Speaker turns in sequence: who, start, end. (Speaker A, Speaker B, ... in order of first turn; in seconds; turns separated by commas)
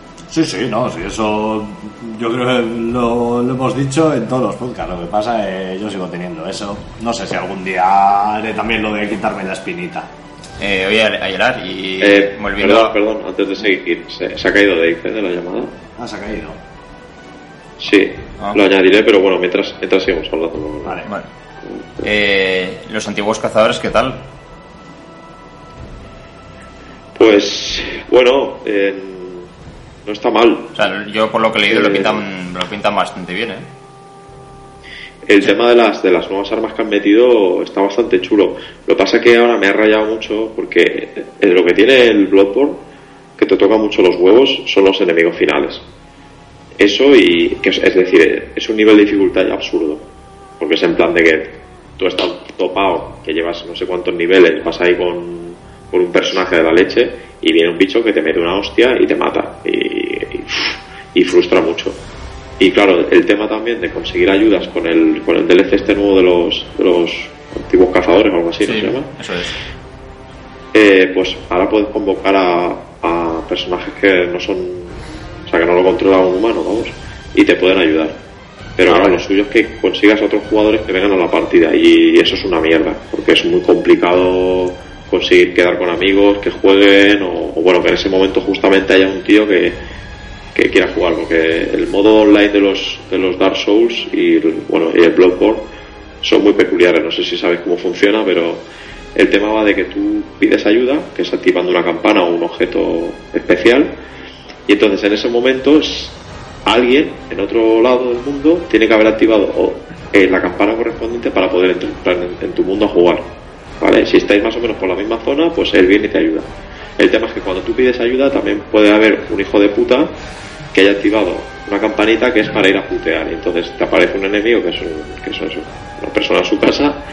Speaker A: 0.3-10.1, Speaker B: 10.6-12.9, Speaker C: 12.0-15.7, Speaker A: 15.9-16.6, Speaker C: 17.8-21.0, Speaker A: 20.8-21.1, Speaker B: 22.0-24.2, Speaker C: 27.1-29.5, Speaker C: 30.1-30.9, Speaker B: 30.7-33.7, Speaker C: 31.7-32.2, Speaker C: 35.2-42.8, Speaker C: 43.4-45.8, Speaker C: 46.8-50.0, Speaker C: 50.6-62.0, Speaker C: 62.6-69.1, Speaker B: 68.6-69.6, Speaker C: 70.7-78.1, Speaker C: 78.8-89.8, Speaker B: 78.8-79.2, Speaker C: 90.5-95.6, Speaker C: 96.2-98.6, Speaker C: 99.1-103.9, Speaker C: 104.7-106.1, Speaker C: 106.7-113.2, Speaker C: 113.8-116.5, Speaker C: 117.0-120.1, Speaker C: 120.7-127.0